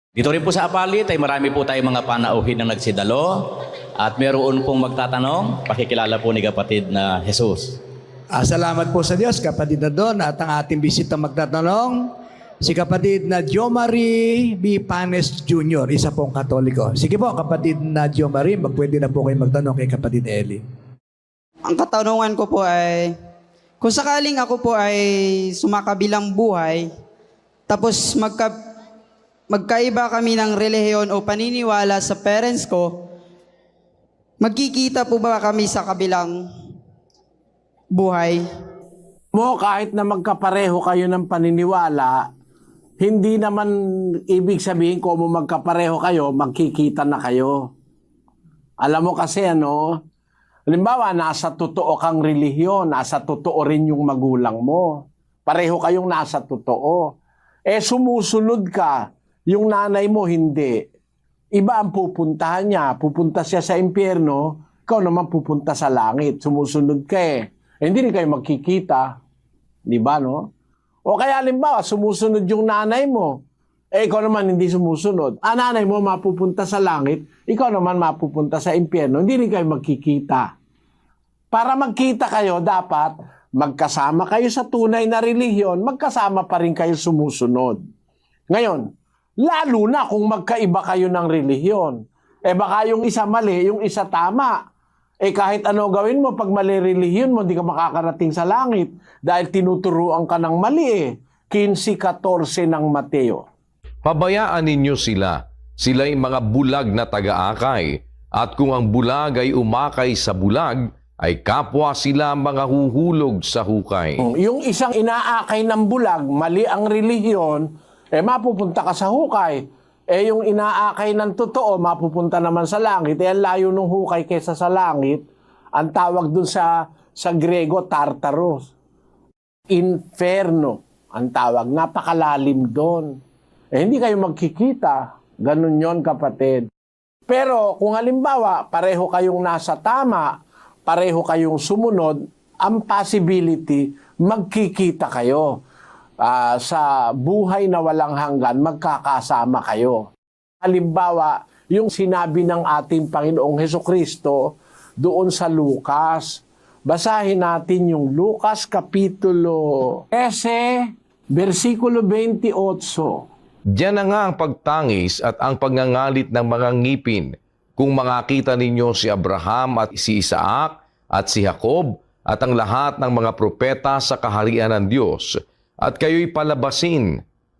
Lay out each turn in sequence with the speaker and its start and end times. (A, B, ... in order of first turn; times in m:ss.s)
0:00.2-0:07.8 A
0:08.3-0:12.1 B
0:12.6-0:20.6 B
0:21.6-0:23.1 C
0:23.8-0:26.9 C
0:27.7-0:28.6 C
0:29.5-0:33.0 C
0:34.4-0:36.5 C
0:37.9-0:38.4 C
0:39.3-0:42.3 D
0:43.0-0:43.7 D
0:44.3-0:47.7 D
0:48.8-0:50.0 D
0:50.7-0:57.1 D
0:57.6-1:00.9 D
1:01.5-1:09.2 D
1:09.8-1:10.5 D
1:11.0-1:13.4 D
1:13.9-1:20.5 D
1:21.5-1:27.8 D
1:28.5-1:28.8 D
1:29.4-1:34.6 D
1:35.2-1:43.4 D
1:44.0-1:54.2 E
1:54.2-2:08.7 D
2:09.7-2:13.2 D
2:13.7-2:16.7 D
2:17.3-2:20.3 D
2:20.9-2:25.5 D
2:26.2-2:30.1 D
2:30.6-2:43.2 D
2:43.8-2:57.2 E